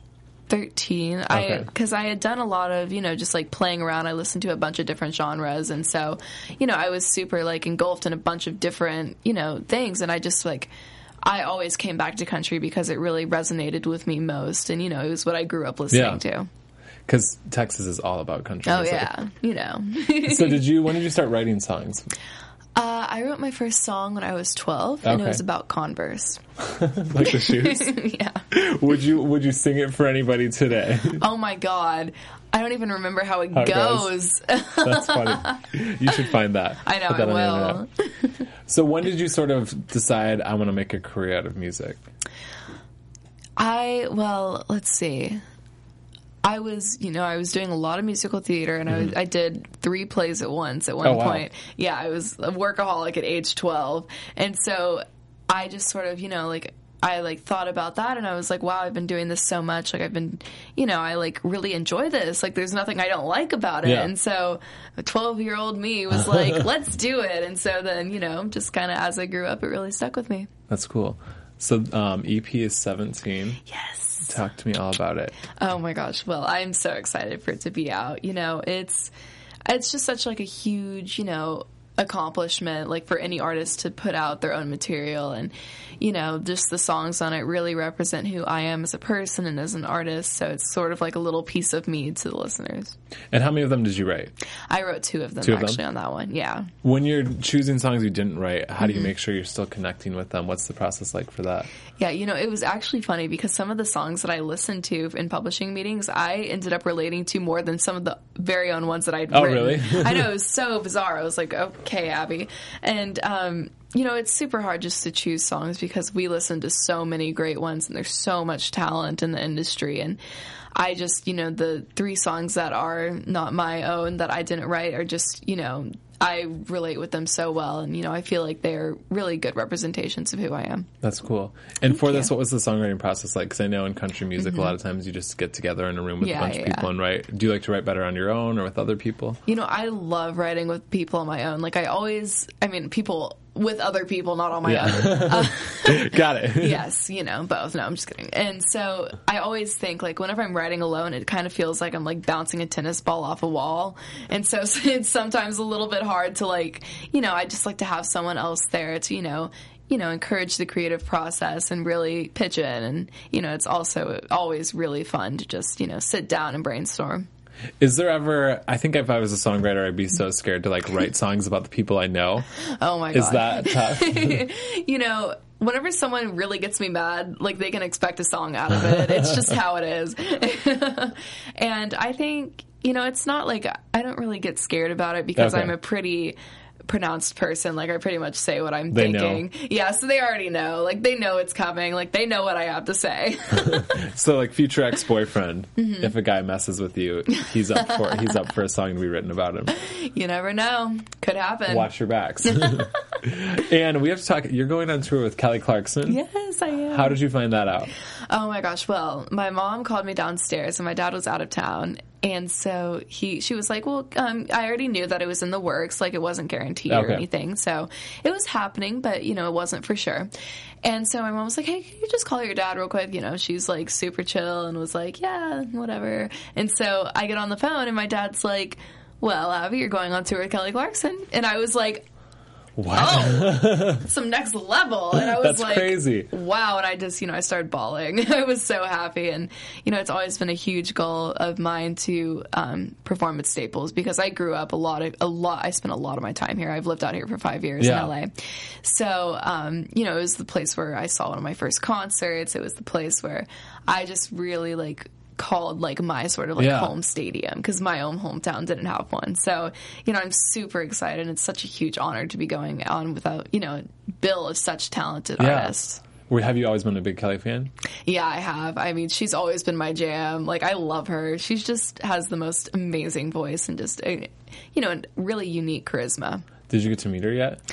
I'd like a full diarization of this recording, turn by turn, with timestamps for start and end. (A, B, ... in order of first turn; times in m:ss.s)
0:00.5-0:10.7 A
0:01.3-0:01.7 B
0:11.2-0:16.5 A
0:15.9-0:16.2 B
0:17.1-0:19.1 B
0:18.6-0:20.7 A
0:20.2-0:22.1 B
0:22.7-0:26.4 A
0:25.0-0:25.4 B
0:26.7-0:28.0 B
0:27.2-0:28.4 A
0:28.5-0:31.2 B
0:31.2-0:36.2 A
0:33.5-0:34.1 B
0:34.8-0:37.8 B
0:36.8-0:38.4 A
0:38.7-0:42.0 B
0:43.6-0:45.4 A
0:46.4-1:10.5 A
0:51.0-0:51.5 B
1:03.8-1:04.1 B
1:10.7-1:13.6 B
1:13.7-1:14.3 A
1:14.2-1:15.4 B
1:15.5-1:19.1 A
1:19.7-1:32.9 A
1:33.3-1:34.3 B
1:34.7-1:36.7 A
1:35.4-1:35.8 B
1:36.8-1:41.7 B
1:38.8-1:39.1 A
1:42.0-2:00.2 A
1:49.3-1:50.3 B
2:00.7-2:10.9 A
2:11.0-2:19.4 B
2:11.9-2:12.3 A
2:14.4-2:14.8 A
2:16.2-2:16.9 A
2:19.4-2:47.2 A
2:24.6-2:26.8 B
2:47.8-2:52.4 B
2:52.8-3:06.4 A
2:53.1-2:54.4 B
3:05.4-3:05.7 B
3:06.9-3:13.9 A
3:08.9-3:09.5 B
3:13.8-3:19.7 B
3:15.8-3:16.1 A
3:17.3-3:18.2 A
3:19.7-3:21.9 A
3:21.7-3:26.2 B
3:22.4-3:22.9 A
3:26.0-3:27.2 A
3:26.9-3:27.9 B
3:28.3-3:40.3 A
3:36.9-3:37.2 B
3:40.8-3:52.0 A
3:52.8-3:54.0 B
3:52.9-4:26.0 A
3:55.1-3:56.3 B
4:07.8-4:08.1 B
4:16.6-4:16.9 B
4:25.4-4:27.7 B
4:28.0-4:36.4 A
4:36.7-4:37.6 B